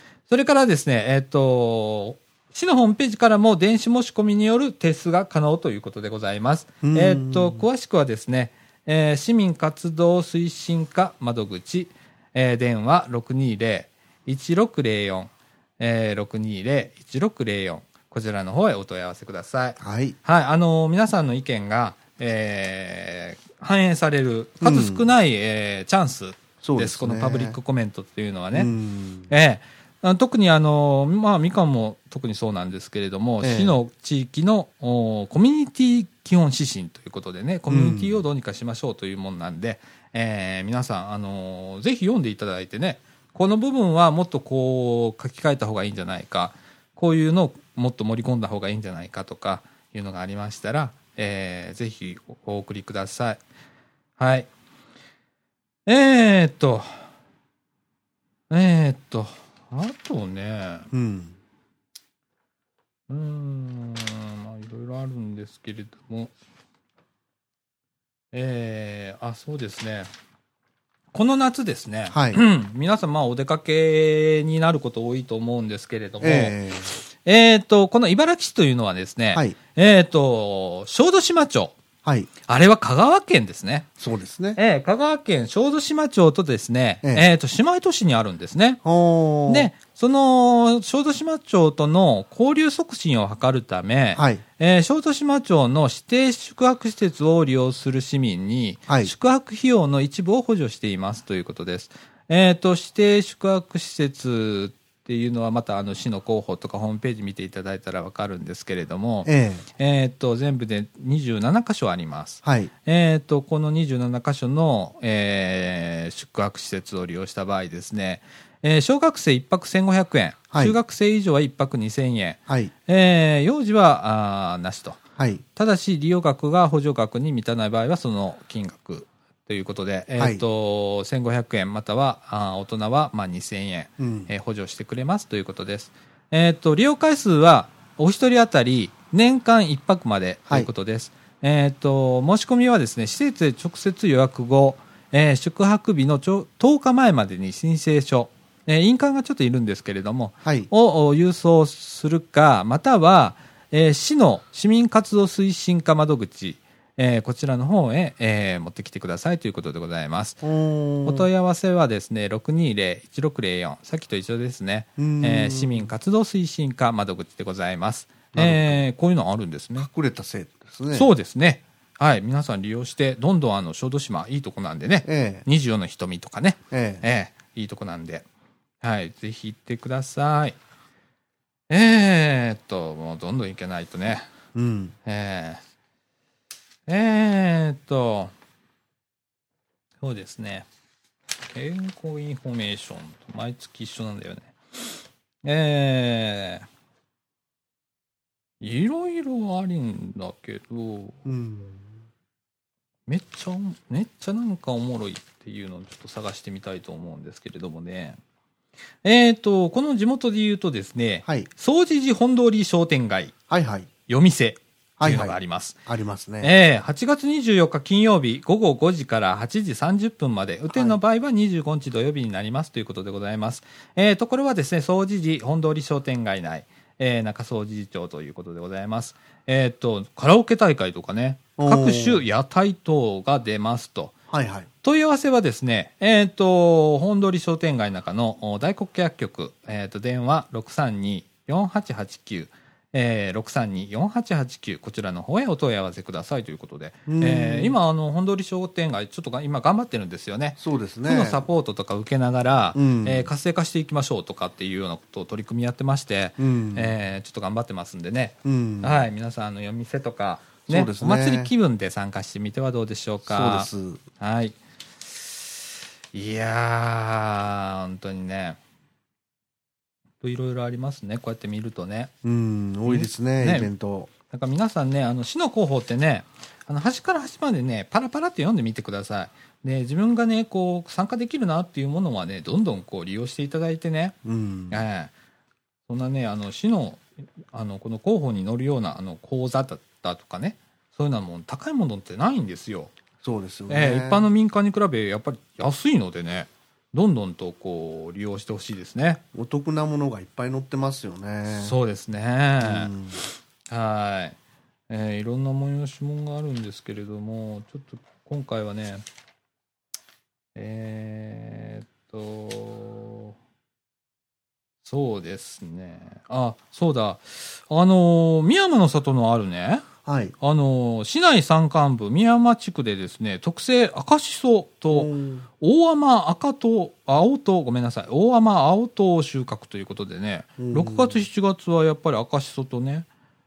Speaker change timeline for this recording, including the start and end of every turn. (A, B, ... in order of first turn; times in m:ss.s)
0:00.3-0:28.7 A
0:06.8-0:07.6 B
0:19.8-0:20.2 B
0:24.6-0:25.0 B
0:26.6-0:27.6 B
0:28.5-0:29.3 B
0:29.3-0:53.4 A
0:33.4-0:33.7 B
0:37.7-0:38.2 B
0:54.2-0:54.5 A
0:55.8-0:56.9 A
0:58.5-1:00.9 A
1:00.9-1:01.3 B
1:03.1-1:06.3 A
1:08.3-1:10.1 A
1:11.1-1:21.8 A
1:12.1-1:12.4 B
1:16.2-1:17.0 B
1:22.0-1:22.3 B
1:22.5-1:23.9 A
1:24.0-1:24.6 B
1:24.6-1:28.8 A
1:28.8-1:29.7 B
1:29.5-2:05.0 A
1:34.1-1:34.4 B
1:38.9-1:39.1 B
1:49.2-1:49.6 B
1:52.4-1:52.7 B
2:05.5-2:40.4 A
2:10.2-2:10.4 B
2:14.0-2:14.3 B
2:30.4-2:30.7 B
2:40.4-2:41.3 B
2:41.0-2:49.9 A
2:45.0-2:45.9 B
2:48.3-2:48.8 B
2:49.8-2:51.1 B
2:50.9-2:58.2 A
2:55.0-2:55.4 B
2:56.7-2:57.0 B
2:58.8-3:00.6 A
3:01.7-3:04.3 A
3:04.5-3:04.9 B
3:05.0-3:05.6 A
3:06.9-3:08.3 A
3:10.0-3:10.7 A
3:11.5-3:14.6 A
3:15.4-3:16.6 A
3:18.6-3:21.3 A
3:21.2-3:21.9 B
3:23.1-3:28.2 A
3:29.0-3:33.4 A
3:33.5-3:33.9 B
3:34.1-3:35.8 A
3:35.0-3:36.5 B
3:36.4-3:54.2 A
3:40.7-3:41.0 B
3:51.6-3:52.2 B
3:54.3-3:54.7 B
3:54.8-4:24.6 A
4:07.1-4:07.8 B
4:10.6-4:11.4 B
4:12.7-4:13.3 B
4:16.4-4:16.9 B
4:18.4-4:19.1 B
4:20.7-4:21.5 B
4:23.2-4:24.0 B
4:26.1-4:28.6 A
4:30.2-4:32.1 A
4:32.2-4:34.1 B
4:32.8-4:33.7 A
4:34.3-4:44.2 A
4:44.2-4:44.8 B
4:44.7-4:45.1 A
4:45.9-4:52.9 A
4:53.2-4:54.3 B
4:53.7-4:59.2 A
4:59.3-5:01.8 B
5:01.5-5:02.9 A
5:02.6-5:03.2 B
5:03.7-5:04.4 A
5:04.9-5:09.0 A
5:10.5-5:13.3 A
5:14.8-5:19.9 A
5:20.0-5:20.3 B
5:20.4-5:33.1 A
5:24.9-5:25.4 B
5:30.6-5:31.2 B